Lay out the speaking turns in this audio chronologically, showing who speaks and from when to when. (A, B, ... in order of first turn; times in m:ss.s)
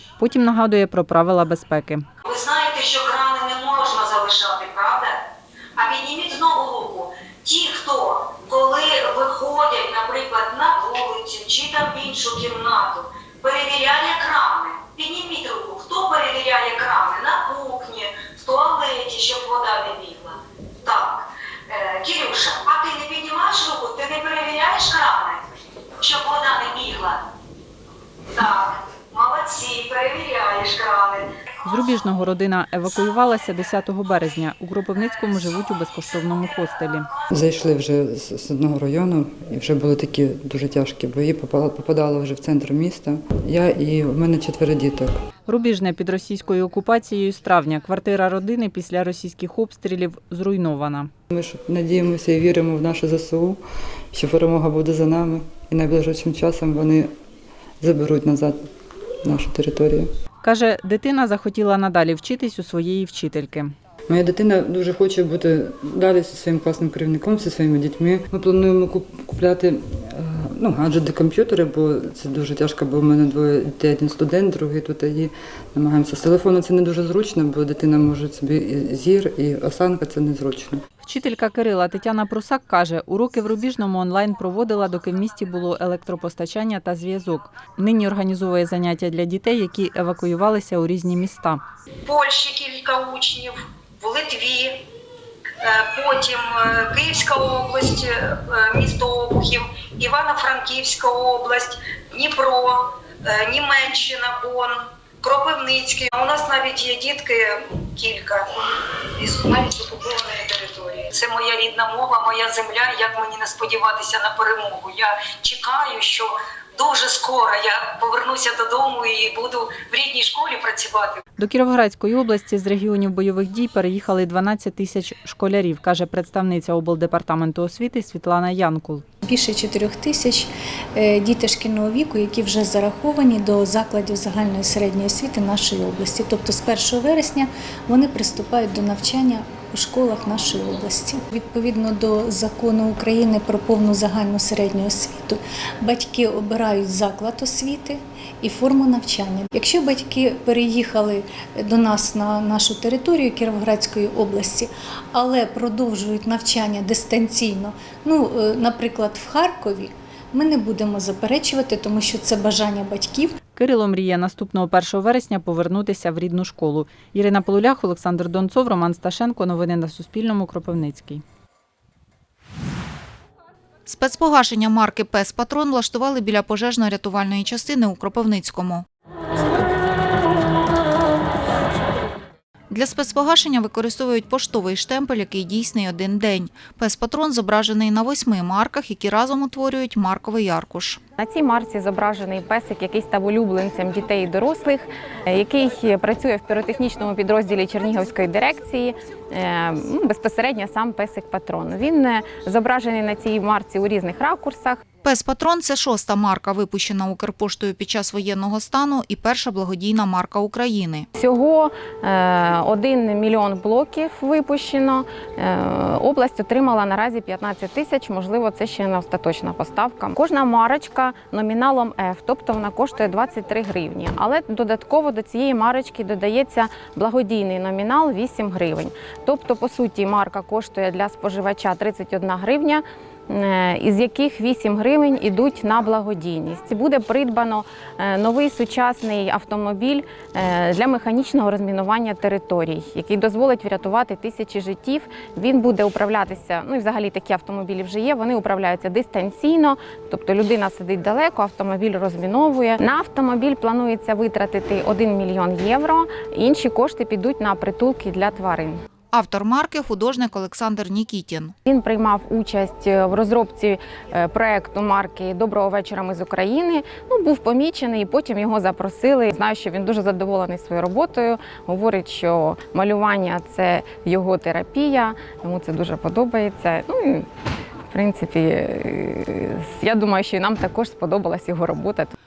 0:00.2-0:02.0 A
0:02.2-0:05.2 B
0:05.8-0:25.4 B
0:26.0-0:27.2 B
0:28.3-0:31.3 B
0:31.6-0:37.1 A
0:35.0-0:37.3 B
0:37.3-0:45.2 C
0:45.4-0:51.1 A
0:51.3-0:53.6 C
0:54.1-0:57.1 C
0:57.8-0:58.6 C
0:59.2-1:00.1 C
1:00.4-1:03.7 A
1:04.1-1:20.8 C
1:21.0-1:31.6 A
1:32.0-1:34.8 B
1:35.6-1:48.5 B
1:49.2-2:01.2 B
2:01.4-2:09.0 A
2:09.2-2:43.3 D
2:43.5-2:51.2 A
2:53.8-2:58.8 E
3:02.7-3:11.0 E
3:11.2-3:24.8 F
3:25.0-3:31.1 E
3:31.2-4:18.8 F
4:19.1-4:21.6 E
4:21.7-4:37.2 F
4:37.9-4:42.1 F